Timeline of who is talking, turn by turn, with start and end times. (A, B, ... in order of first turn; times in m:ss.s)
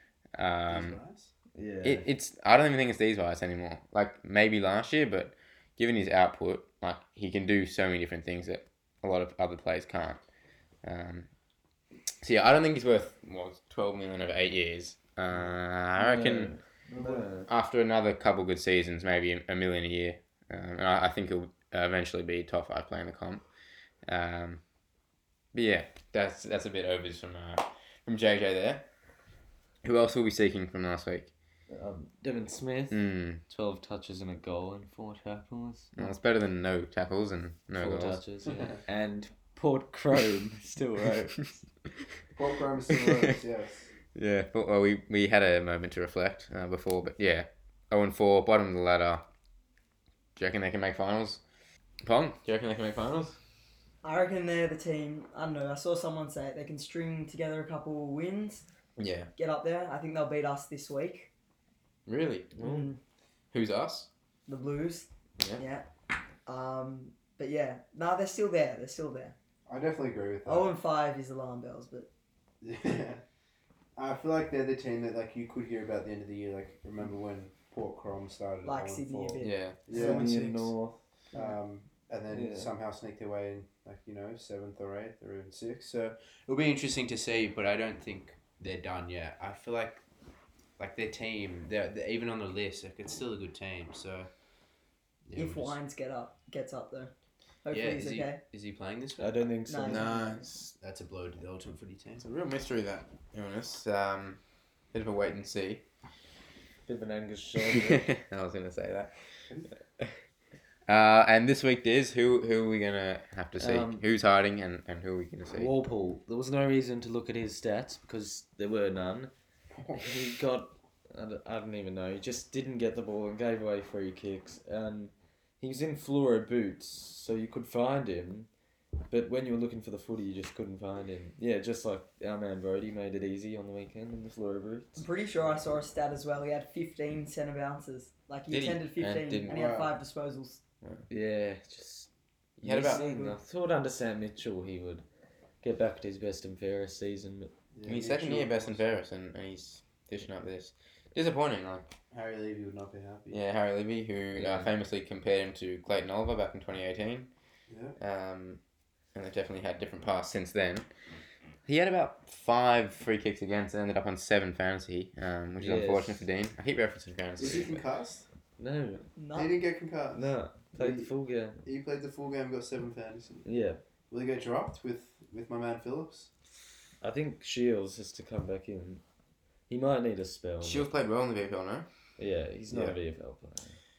0:00.3-0:01.0 A
0:00.7-0:01.3 B
0:01.5-0:02.0 C
0:01.8-0:10.2 A
0:10.8-0:11.3 A
0:12.2-0:16.5 A
0:16.0-0:17.5 C
0:17.0-0:17.2 B
0:17.5-0:23.4 A
0:24.0-0:24.6 A
0:25.5-0:28.8 A
0:29.8-0:31.3 A
0:31.7-0:36.1 C
0:32.9-0:33.4 A
0:36.0-0:38.2 A
0:37.8-0:41.6 C
0:38.5-0:38.8 B
0:42.3-0:43.9 B
0:43.1-0:43.4 A
0:44.1-0:49.2 A
0:50.4-0:51.4 A
0:52.0-0:53.4 A
0:54.0-0:58.6 D
0:59.0-0:59.3 A
0:59.4-1:01.3 D
1:02.0-1:02.5 A
1:02.6-1:02.9 C
1:02.6-1:03.0 D
1:03.5-1:04.1 A
1:04.5-1:05.9 D
1:06.4-1:09.4 D
1:09.6-1:10.7 B
1:10.4-1:12.1 D
1:12.6-1:13.2 B
1:14.0-1:20.7 B
1:18.6-1:20.3 D
1:19.4-1:19.8 A
1:19.9-1:21.0 C
1:21.3-1:30.0 B
1:22.3-1:22.7 C
1:30.8-1:34.3 B
1:35.2-1:35.8 B
1:35.4-1:37.1 D
1:37.6-1:38.4 D
1:37.7-1:39.5 B
1:39.2-1:40.7 C
1:39.7-1:40.1 D
1:39.8-1:40.4 A
1:40.8-1:42.2 B
1:42.2-1:44.4 A
1:44.9-1:45.8 A
1:46.8-1:48.1 C
1:47.7-1:49.2 A
1:50.9-1:55.7 A
1:53.6-1:54.0 C
1:55.5-1:59.3 C
1:59.8-2:00.1 B
2:00.0-2:08.5 C
2:09.1-2:15.0 C
2:15.0-2:20.6 D
2:18.5-2:19.6 A
2:19.5-2:19.9 B
2:20.8-2:21.1 A
2:21.1-2:22.1 C
2:22.6-2:23.1 A
2:22.6-2:25.0 C
2:22.8-2:23.4 D
2:25.6-2:27.5 C
2:27.7-2:28.8 B
2:27.8-2:31.9 A
2:32.1-2:33.4 B
2:33.3-2:37.3 A
2:34.3-2:34.7 C
2:37.7-2:38.0 B
2:38.0-2:38.6 A
2:39.1-2:40.9 A
2:41.6-2:47.8 A
2:45.6-2:46.2 C
2:47.4-2:48.2 B
2:48.6-2:49.1 C
2:49.2-2:49.5 D
2:49.3-2:51.1 B
2:50.1-2:51.6 C
2:51.6-2:53.5 B
2:53.4-2:53.8 C
2:54.1-2:56.3 B
2:57.0-2:59.0 C
2:59.7-3:00.9 C
3:00.6-3:01.8 A
3:02.2-3:03.8 C
3:02.7-3:03.0 A